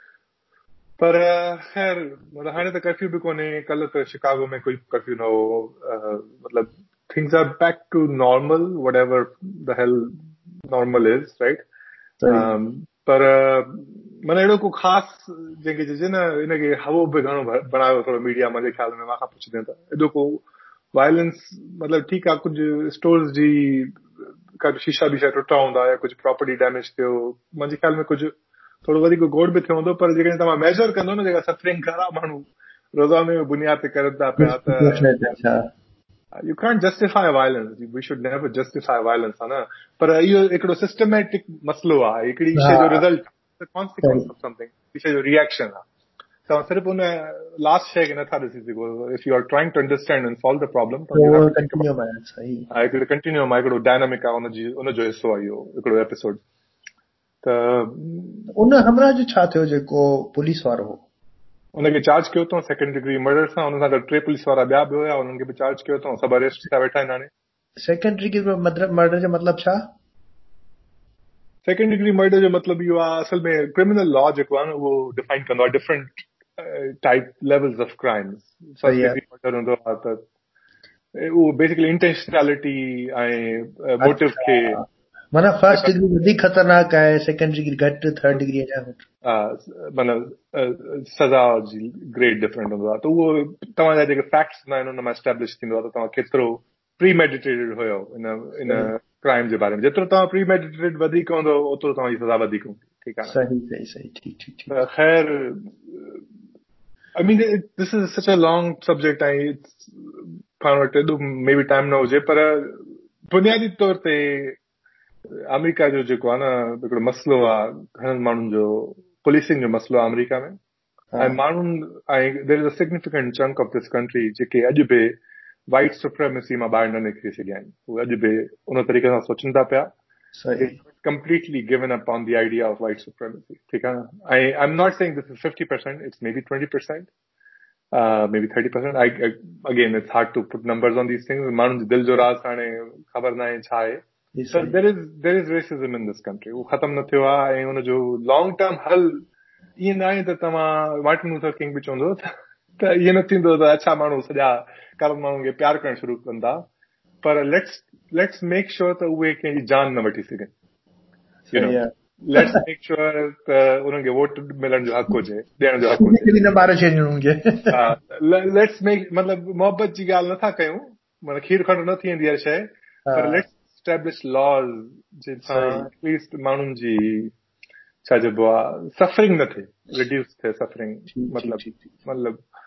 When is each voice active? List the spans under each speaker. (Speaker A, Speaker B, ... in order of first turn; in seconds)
Speaker A: 1.0-11.6, 12.3-24.0, 24.6-28.3, 28.8-35.1, 36.4-45.9, 46.5-51.9, 52.7-56.4, 57.4-58.5, 61.7-67.3, 71.6-80.2, 81.1-84.8, 89.2-103.4, 104.7-106.2, 107.2-114.6, 115.5-120.6, 121.2-125.2, 125.7-129.9, 130.6-137.1, 137.9-149.2, 149.8-152.2, 152.8-156.7, 157.2-160.5, 161.5-166.4, 167.7-177.3, 178.1-182.4
Speaker B: 12.2-12.5, 34.4-35.7, 42.6-43.0, 44.0-44.3, 51.1-52.7, 58.5-61.0, 67.8-69.9, 78.8-79.2, 84.0-89.0, 103.3-104.7, 130.3-130.8, 144.3-144.7, 161.5-162.6, 166.0-167.8, 173.1-173.4, 175.4-175.9, 181.1-181.8